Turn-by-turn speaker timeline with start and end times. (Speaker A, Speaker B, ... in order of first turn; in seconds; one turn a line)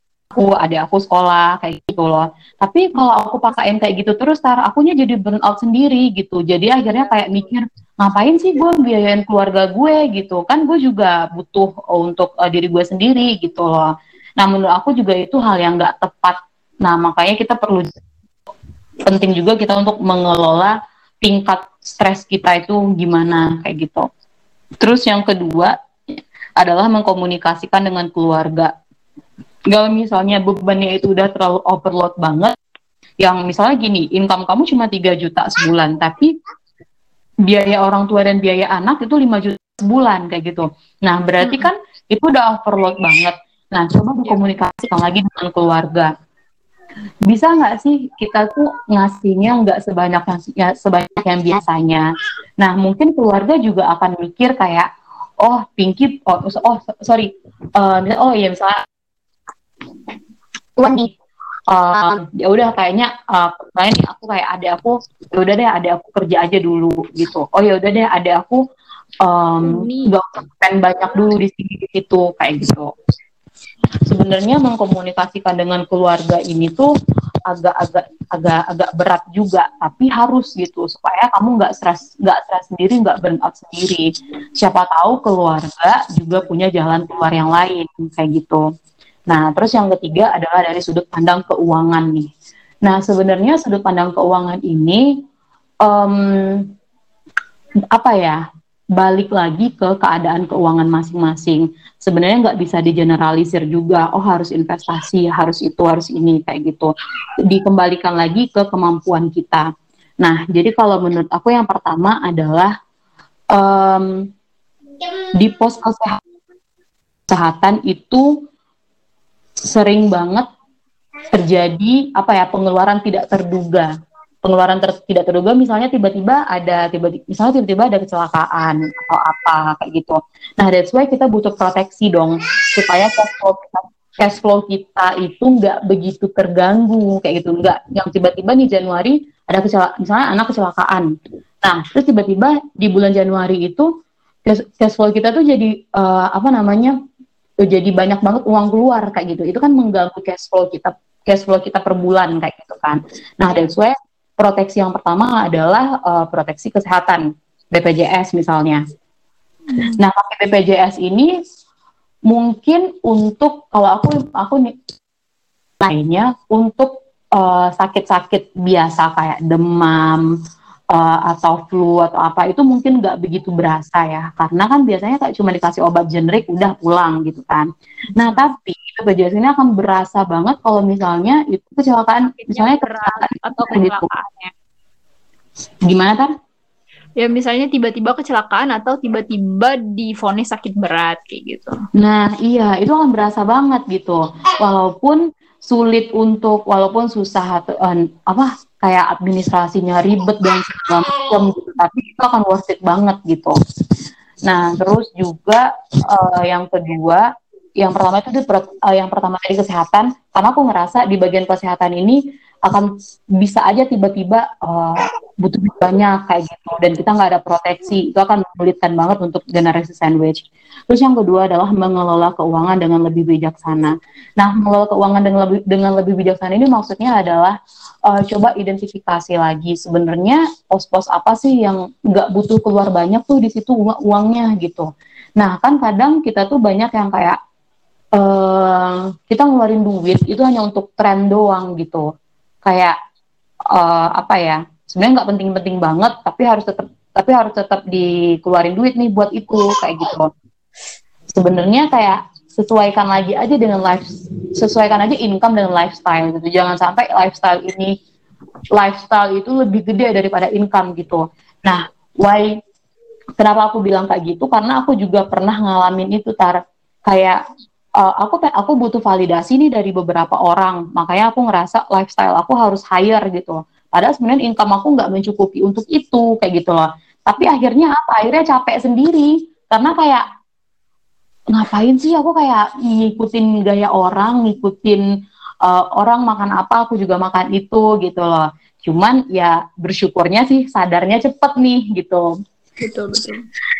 Speaker A: 0.3-17.9
Speaker B: 7.0-7.4
Speaker A: 19.0-24.0
Speaker A: 24.8-28.7
Speaker A: 29.7-32.5
Speaker A: 33.2-36.3
Speaker A: 37.5-46.1
Speaker B: 41.4-41.7
Speaker A: 47.3-52.1
Speaker A: 52.6-54.9
Speaker A: 55.4-58.8
Speaker A: 60.8-61.1
Speaker A: 61.7-68.6
Speaker A: 69.2-72.9
Speaker B: 69.6-70.1
Speaker A: 74.1-76.9
Speaker A: 77.5-84.1
Speaker A: 84.6-88.6
Speaker A: 89.3-92.3
Speaker A: 92.8-95.0
Speaker A: 95.8-96.7
Speaker A: 97.9-98.4
Speaker A: 99.0-106.9
Speaker A: 107.4-109.7
Speaker A: 110.2-112.7
Speaker A: 113.5-114.1
Speaker A: 115.3-116.2
Speaker A: 117.3-118.3
Speaker A: 119.7-120.4
Speaker A: 121.3-123.9
Speaker A: 124.4-141.1
Speaker A: 141.6-143.9
Speaker A: 144.4-146.9
Speaker A: 147.6-158.8
Speaker B: 159.7-160.0
Speaker A: 160.0-161.3
Speaker A: 162.3-164.7
Speaker A: 165.8-170.2
Speaker A: 170.9-184.1
Speaker B: 178.2-178.5
Speaker B: 182.2-184.5
Speaker A: 185.9-186.3
Speaker B: 187.2-191.7
Speaker A: 192.0-203.5
Speaker A: 204.4-207.2
Speaker A: 207.8-227.6
Speaker A: 228.1-237.4
Speaker A: 238.2-242.1
Speaker A: 242.6-242.9
Speaker A: 243.7-250.3
Speaker A: 251.3-257.9
Speaker A: 258.7-262.5
Speaker A: 263.4-267.4
Speaker A: 268.0-280.2
Speaker A: 281.5-285.0
Speaker A: 285.6-292.3
Speaker B: 292.8-293.4